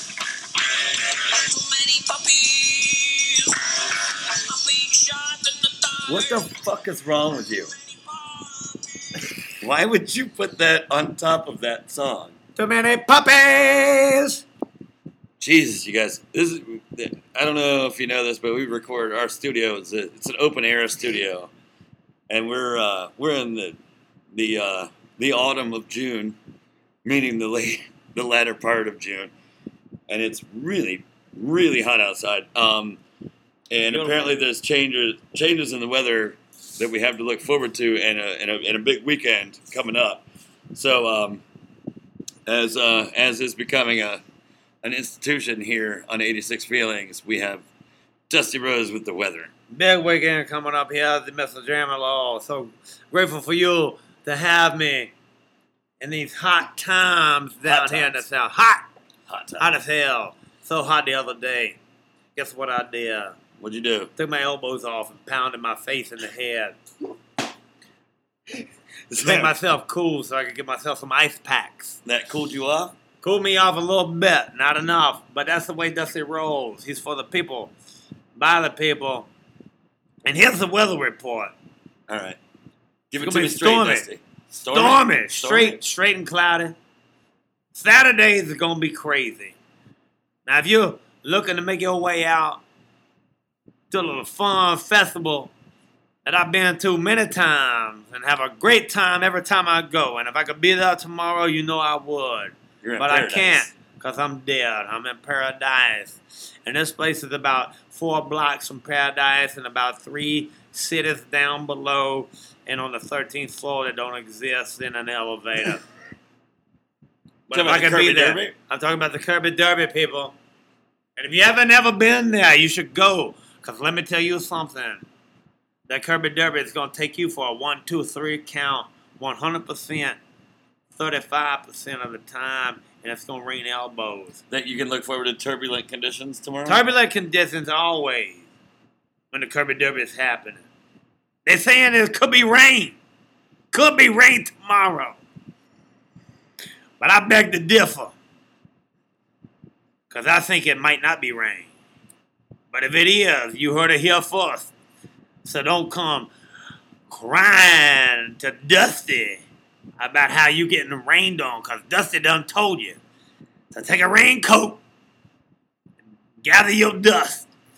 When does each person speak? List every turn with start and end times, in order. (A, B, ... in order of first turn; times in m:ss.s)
0:01.3-0:06.4 A
0:06.1-0:07.7 B
0:07.8-0:09.2 A
0:09.6-0:12.4 B
0:12.6-0:14.4 C
0:15.4-0:21.5 B
0:22.3-0:23.8 B
0:24.3-0:26.4 B
0:27.0-0:29.3 B
0:30.1-0:33.0 B
0:33.7-0:41.4 B
0:33.9-0:34.3 C
0:42.4-0:44.2 B
0:44.8-0:47.6 B
0:48.3-0:49.5 B
0:49.7-0:55.1 C
0:56.0-0:58.9 C
0:57.6-0:58.2 B
0:59.3-0:59.7 B
0:59.6-1:01.8 C
1:02.4-1:03.4 C
1:03.6-1:04.1 B
1:04.2-1:06.8 C
1:09.1-1:09.5 B
1:09.2-1:12.0 C
1:12.0-1:12.9 B
1:13.2-1:17.7 C
1:18.4-1:19.3 C
1:20.2-1:21.5 C
1:22.1-1:22.4 B
1:23.1-1:25.8 B
1:23.2-1:24.1 C
1:24.7-1:26.8 C
1:27.7-1:29.5 C
1:30.4-1:32.6 C
1:33.9-1:35.5 C
1:36.2-1:55.8 C
1:42.8-1:43.7 B
1:57.5-2:00.4 C
1:57.5-1:58.5 B
2:01.2-2:05.0 C
2:05.9-2:10.2 C
2:10.9-2:14.4 C
2:14.5-2:16.8 B
2:16.6-2:18.5 C
2:19.3-2:20.6 C
2:21.4-2:23.0 C
2:23.7-2:25.2 C
2:27.0-2:28.1 C
2:30.1-2:31.7 C
2:32.7-2:34.7 C
2:35.4-2:36.3 C
2:37.1-2:39.4 C
2:40.0-2:43.0 C
2:43.7-2:44.8 C
2:46.4-2:47.5 C